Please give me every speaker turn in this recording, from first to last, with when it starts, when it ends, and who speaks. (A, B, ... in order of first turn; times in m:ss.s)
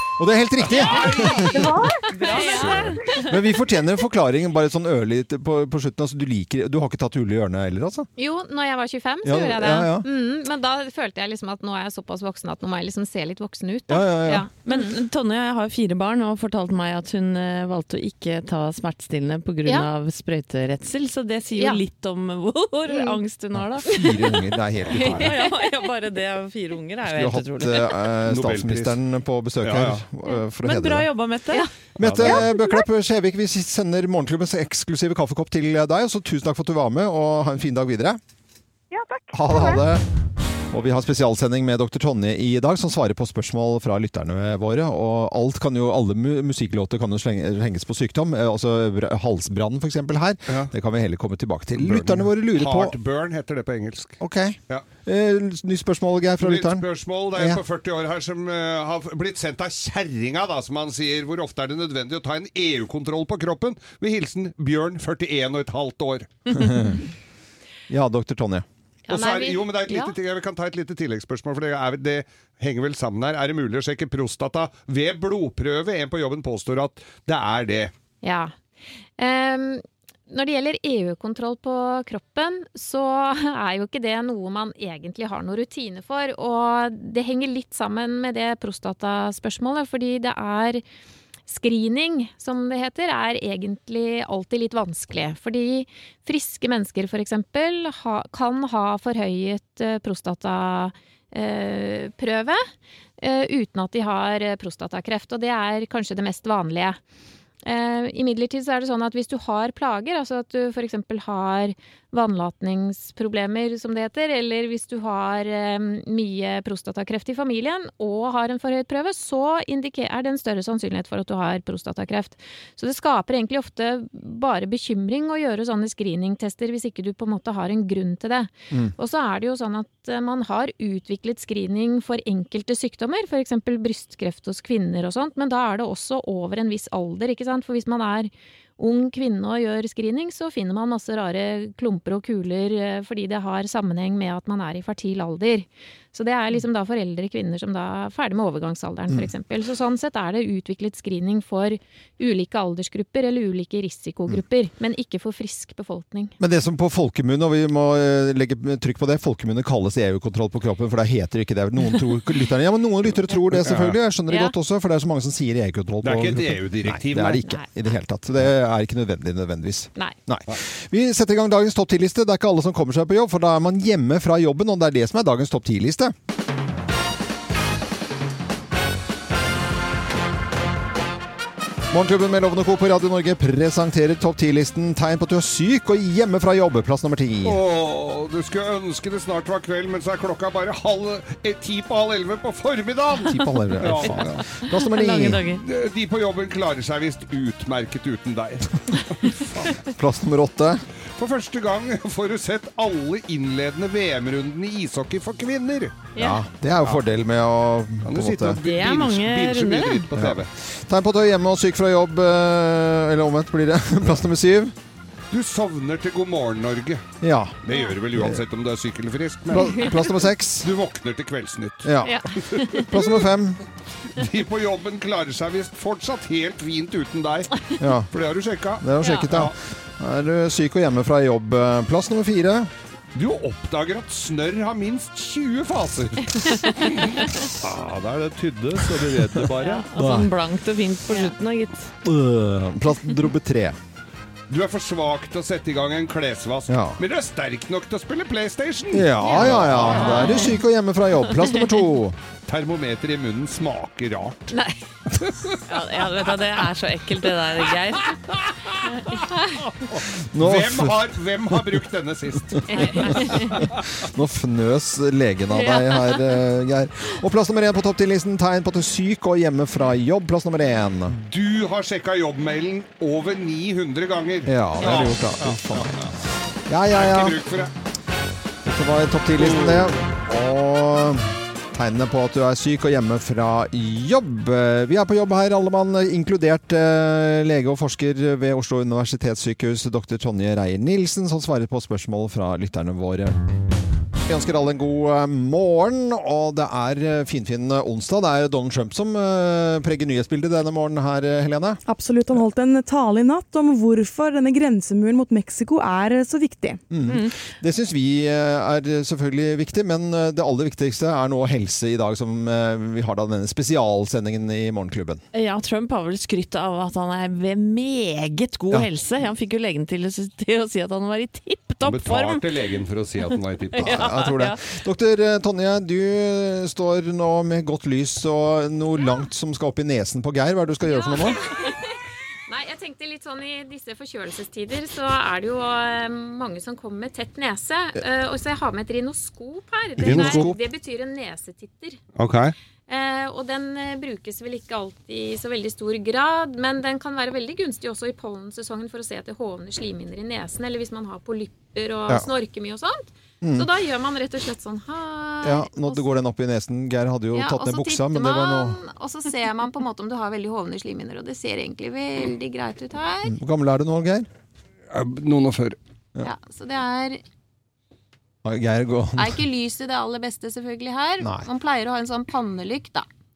0:00.2-0:01.7 A
0:00.6-0:03.0 B
0:01.3-0:03.2 C
0:02.1-0:03.2 D
0:02.2-0:03.0 E
0:03.2-0:08.1 A
0:08.2-0:15.0 D
0:09.2-0:10.1 A
0:13.9-0:14.5 A
0:14.7-0:23.9 E
0:21.6-0:21.8 D
0:22.9-0:23.2 D
0:23.6-0:25.3 A
0:23.9-0:24.2 D
0:24.9-0:25.3 B
0:25.1-0:28.0 E
0:27.1-0:31.1 A
0:28.3-0:29.0 B
0:29.6-0:30.0 B
0:30.6-0:31.7 E
0:32.0-0:38.2 A
0:32.0-0:32.5 B
0:38.9-0:39.9 C
0:39.3-0:40.0 A
0:40.7-0:53.0 A
0:50.5-0:50.7 B
0:51.8-0:54.2 B
0:54.2-0:57.6 A
0:56.4-1:06.4 B
1:06.5-1:07.0 A
1:07.9-1:08.6 A
1:09.1-1:10.2 D
1:09.1-1:17.9 B
1:18.2-1:18.5 D
1:19.2-1:30.8 D
1:31.5-1:42.7 D
1:43.2-1:47.0 D
1:47.6-2:36.4 D
2:36.4-2:56.1 A
2:43.5-2:44.0 B
2:44.3-2:44.6 D
2:46.0-2:47.5 B
3:01.9-3:07.6 A
3:07.4-3:14.4 B
3:13.3-3:15.4 A
3:13.9-3:15.6 E
3:15.5-3:19.8 B
3:19.9-3:20.8 A
3:21.2-3:26.1 B
3:26.2-3:26.4 D
3:26.2-3:28.6 A
3:28.0-3:30.5 B
3:28.6-3:30.1 E
3:30.2-3:34.7 A
3:35.3-3:37.1 B
3:37.2-3:37.6 A
3:37.6-3:42.7 B
3:38.2-3:38.4 A
3:39.5-3:40.7 A
3:41.8-3:43.6 A
3:42.0-3:43.2 D
3:44.1-3:47.5 B
3:47.8-3:48.1 A
3:48.1-3:49.6 B
3:48.8-3:52.7 A
3:53.1-3:59.9 B
3:59.6-4:01.9 E
4:00.0-4:00.3 A
4:02.0-4:03.8 A
4:04.5-4:10.5 B
4:06.7-4:07.0 A
4:08.9-4:12.2 A
4:09.2-4:10.6 D
4:10.0-4:10.6 E
4:12.5-4:14.6 B
4:14.5-4:14.8 D
4:15.2-4:15.6 B
4:15.7-4:18.2 E
4:18.1-4:23.8 B
4:20.2-4:21.1 A
4:22.7-4:23.6 D
4:23.2-4:31.2 A
4:25.5-4:26.4 D
4:31.2-4:36.1 B
4:34.5-4:36.1 A
4:36.7-4:37.4 A
4:36.9-4:37.7 B
4:38.6-4:53.4 A
4:39.4-4:40.0 B
4:54.3-5:01.8 A
5:01.9-5:06.8 F
5:06.9-5:15.2 A
5:07.0-5:07.4 E
5:15.3-5:22.4 E
5:21.8-5:24.2 B
5:23.7-5:24.6 E
5:23.8-5:31.4 A
5:30.8-5:42.0 D
5:40.0-5:40.6 A
5:40.0-5:40.5 B
5:42.2-5:42.5 B
5:42.9-5:56.0 D
5:53.4-5:53.7 A
5:55.4-5:58.8 A
5:57.3-6:03.4 D
6:03.3-6:04.3 A
6:04.9-6:05.8 B
6:06.2-6:07.2 D
6:08.4-6:09.4 A
6:09.2-6:13.1 D
6:11.2-6:11.5 A